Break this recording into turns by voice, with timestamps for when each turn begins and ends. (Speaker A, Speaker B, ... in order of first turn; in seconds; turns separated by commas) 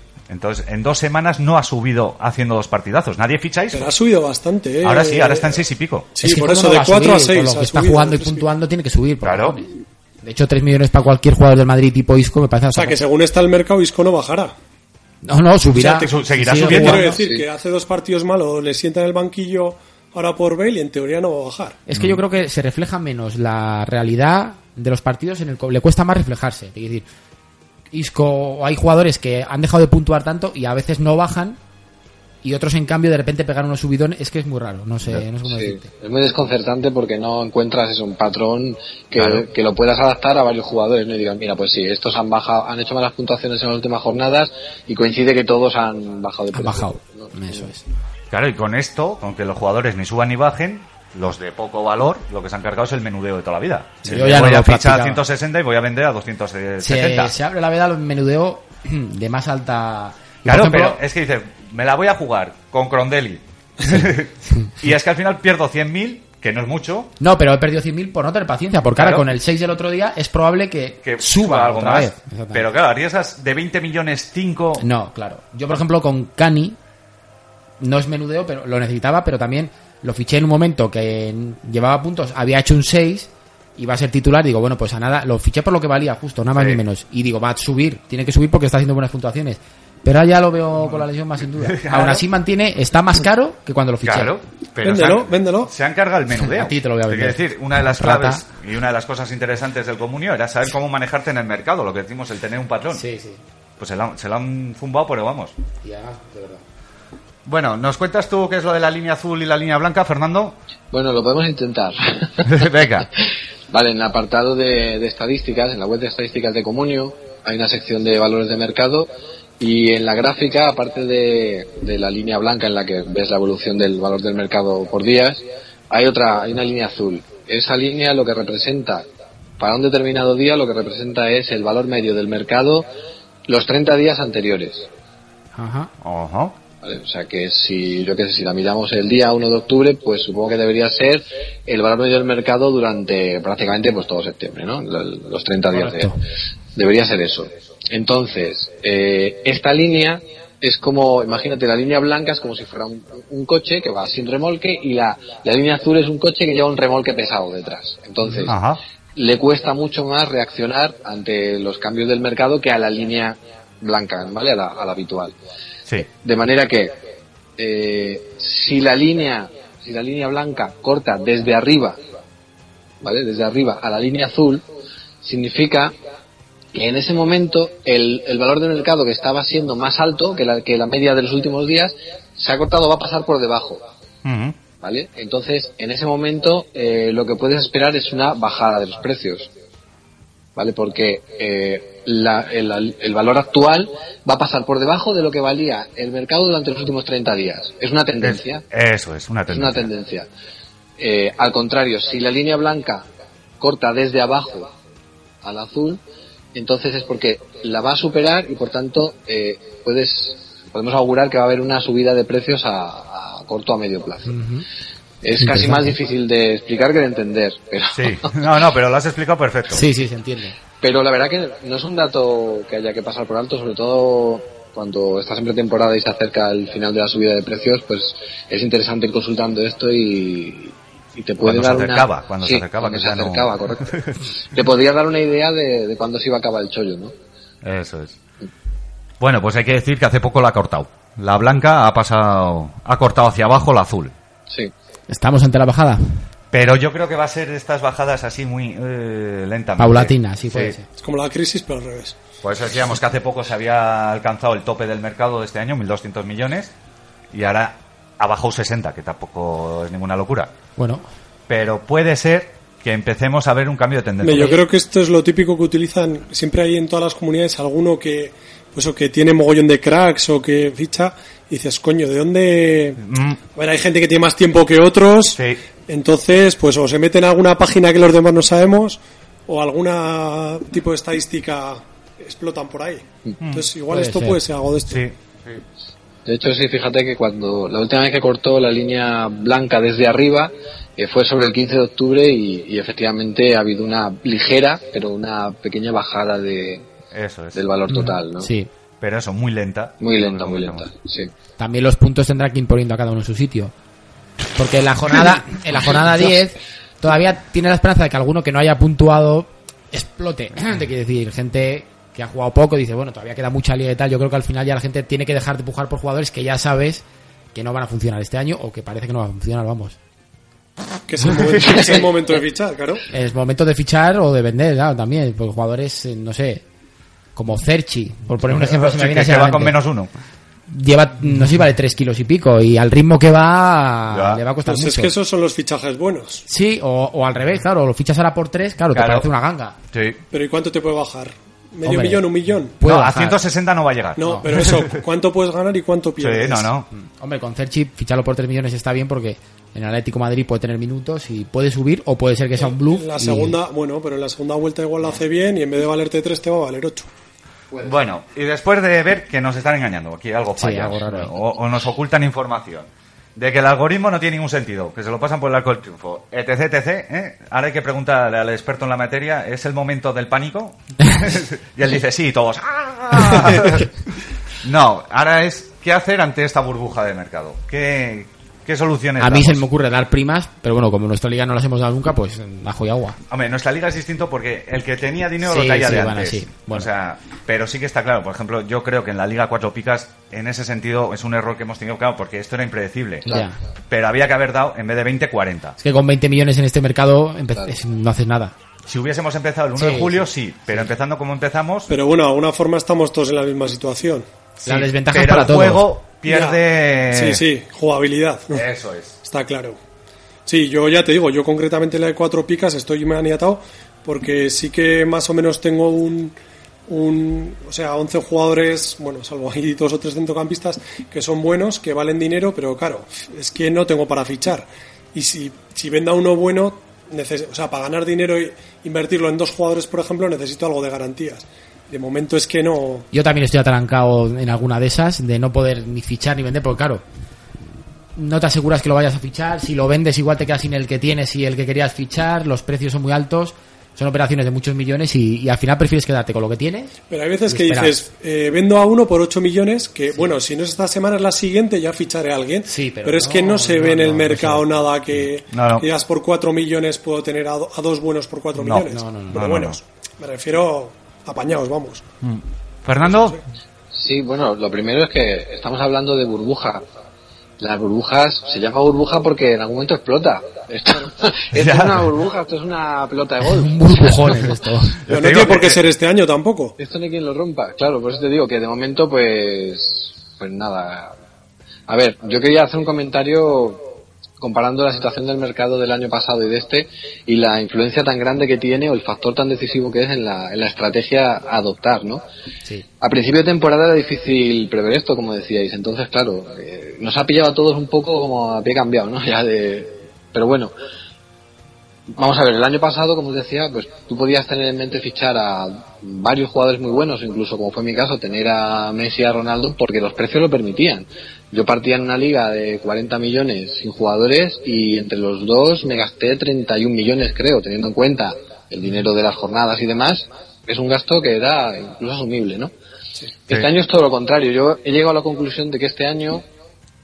Speaker A: 0.3-3.9, Speaker B: 3.7-5.6, Speaker A: 4.8-6.1, Speaker B: 6.1-8.5, Speaker C: 6.2-13.0, Speaker A: 9.2-9.6, Speaker B: 12.7-14.5, Speaker C: 15.2-17.2, Speaker A: 15.7-17.1, Speaker B: 16.6-21.8, Speaker D: 17.2-17.5, Speaker C: 21.9-27.1, Speaker A: 21.9-22.2, Speaker C: 27.9-31.6, Speaker C: 32.4-35.9, Speaker D: 35.5-47.7, Speaker A: 39.1-39.5, Speaker C: 46.5-47.8, Speaker A: 48.3-57.3, Speaker C: 54.0-55.2, Speaker C: 56.8-61.0, Speaker A: 60.5-67.1, Speaker C: 67.2-72.7, Speaker A: 69.0-69.3, Speaker A: 71.0-74.8, Speaker C: 74.8-76.8, Speaker C: 77.8-94.3, Speaker A: 86.5-86.8, Speaker A: 90.8-92.3, Speaker A: 94.0-103.0, Speaker B: 94.8-95.7, Speaker C: 96.4-98.4, Speaker C: 102.9-103.4, Speaker A: 103.8-105.5, Speaker C: 105.8-106.6, Speaker A: 107.5-110.6, Speaker D: 110.9-112.7, Speaker A: 112.5-113.1, Speaker D: 113.7-129.1, Speaker D: 129.6-132.9, Speaker D: 133.5-134.9, Speaker C: 135.6-135.9, Speaker A: 136.0-136.6, Speaker D: 136.8-146.2, Speaker C: 145.7-146.2, Speaker D: 146.8-158.6, Speaker A: 158.4-158.8, Speaker D: 159.2-165.3, Speaker D: 166.0-167.0, Speaker D: 167.6-172.0, Speaker D: 173.0-174.7, Speaker D: 175.2-176.0, Speaker D: 176.7-183.9, Speaker A: 184.2-184.6, Speaker D: 184.8-189.5, Speaker D: 190.6-198.7, Speaker A: 198.2-199.9, Speaker D: 199.5-200.3, Speaker D: 201.0-203.1, Speaker D: 203.6-204.7, Speaker D: 205.4-206.0, Speaker D: 206.5-214.4, Speaker C: 214.3-214.7, Speaker D: 215.2-218.4, Speaker C: 215.4-215.9, Speaker A: 217.9-219.9, Speaker C: 219.7-220.6, Speaker D: 220.8-233.9, Speaker A: 231.4-234.2, Speaker D: 234.5-237.1, Speaker A: 237.6-238.2, Speaker A: 239.2-244.1, Speaker C: 245.1-246.2, Speaker A: 246.5-250.8, Speaker C: 249.8-250.9, Speaker B: 251.0-252.2, Speaker A: 252.4-256.7, Speaker A: 257.3-260.5, Speaker C: 260.8-261.1, Speaker A: 261.5-264.6, Speaker B: 264.2-273.0, Speaker A: 273.0-273.4, Speaker B: 273.6-285.0, Speaker A: 275.3-275.6, Speaker A: 283.4-283.7, Speaker C: 283.9-284.4, Speaker A: 284.9-285.6, Speaker D: 286.2-296.9, Speaker A: 297.1-297.6, Speaker D: 297.5-298.5, Speaker C: 297.9-298.7, Speaker A: 299.0-300.9, Speaker D: 300.0-301.3, Speaker C: 301.6-303.7, Speaker C: 304.6-317.0, Speaker C: 317.5-320.0, Speaker B: 321.1-323.0, Speaker A: 321.4-321.8, Speaker C: 323.1-326.6, Speaker C: 327.4-329.8, Speaker A: 328.4-330.1, Speaker C: 330.7-335.1, Speaker A: 334.1-334.4, Speaker B: 334.7-336.4, Speaker C: 336.5-339.8, Speaker A: 338.9-339.3, Speaker A: 339.9-340.2, Speaker B: 340.3-342.8, Speaker C: 341.8-343.4, Speaker A: 342.8-345.0, Speaker B: 344.2-346.7, Speaker A: 346.2-346.9, Speaker C: 346.9-353.6, Speaker B: 352.6-357.1, Speaker A: 357.8-373.9, Speaker C: 360.6-361.3, Speaker A: 374.6-379.6, Speaker C: 379.2-383.2, Speaker A: 383.3-393.3, Speaker C: 385.4-386.9, Speaker C: 393.3-393.6, Speaker A: 393.9-395.8, Speaker C: 395.8-398.5, Speaker A: 398.9-401.9, Speaker C: 399.8-400.9, Speaker B: 401.9-404.3, Speaker A: 404.6-407.4, Speaker C: 404.6-405.9, Speaker B: 406.3-406.6, Speaker B: 407.1-408.6, Speaker A: 408.5-409.2, Speaker B: 409.2-409.8, Speaker B: 410.5-416.4, Speaker B: 416.9-433.1, Speaker C: 433.1-437.0, Speaker C: 438.2-446.9, Speaker B: 447.1-462.1, Speaker C: 447.5-447.9, Speaker C: 452.7-455.3, Speaker A: 455.5-455.9, Speaker A: 458.6-459.8, Speaker C: 458.9-459.5, Speaker A: 462.2-463.4, Speaker B: 463.0-463.4, Speaker D: 463.9-466.8, Speaker D: 467.6-474.3, Speaker A: 471.5-472.1, Speaker C: 473.4-475.0, Speaker A: 475.1-475.9, Speaker B: 475.1-476.8, Speaker D: 476.8-481.1, Speaker D: 481.9-492.2, Speaker D: 493.0-500.7, Speaker D: 502.1-522.7, Speaker D: 523.5-526.5